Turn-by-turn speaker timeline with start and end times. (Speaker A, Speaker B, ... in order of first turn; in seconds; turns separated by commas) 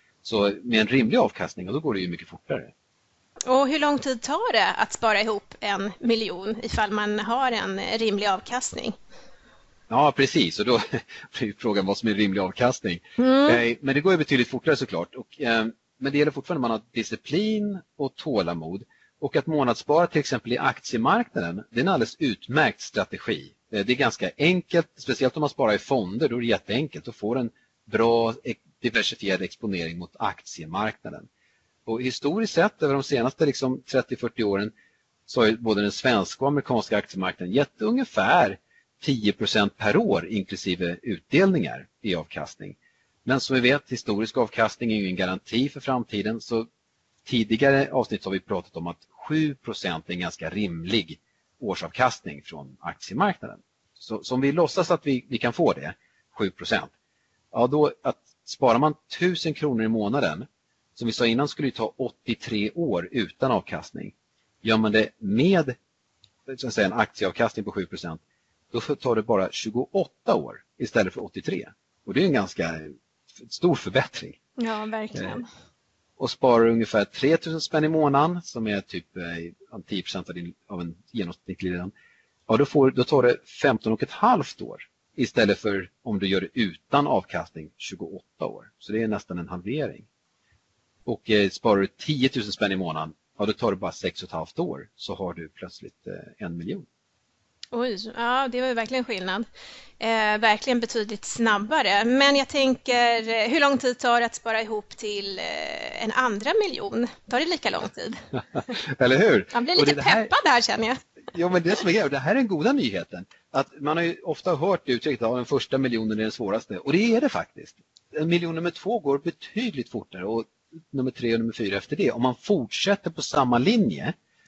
Speaker A: 0.2-2.7, Speaker B: 3.5-9.0, Speaker A: 9.9-31.3, Speaker B: 13.2-13.6, Speaker A: 31.9-34.7, Speaker A: 35.3-46.7, Speaker A: 47.3-56.9, Speaker A: 57.5-65.8, Speaker A: 66.5-68.2, Speaker A: 68.7-74.4, Speaker B: 74.6-75.5, Speaker A: 75.2-75.4, Speaker A: 76.2-81.9, Speaker A: 82.5-90.1, Speaker A: 91.1-96.8, Speaker B: 97.7-99.5, Speaker B: 100.0-108.2, Speaker A: 108.8-110.3, Speaker B: 109.5-111.0, Speaker A: 111.3-124.1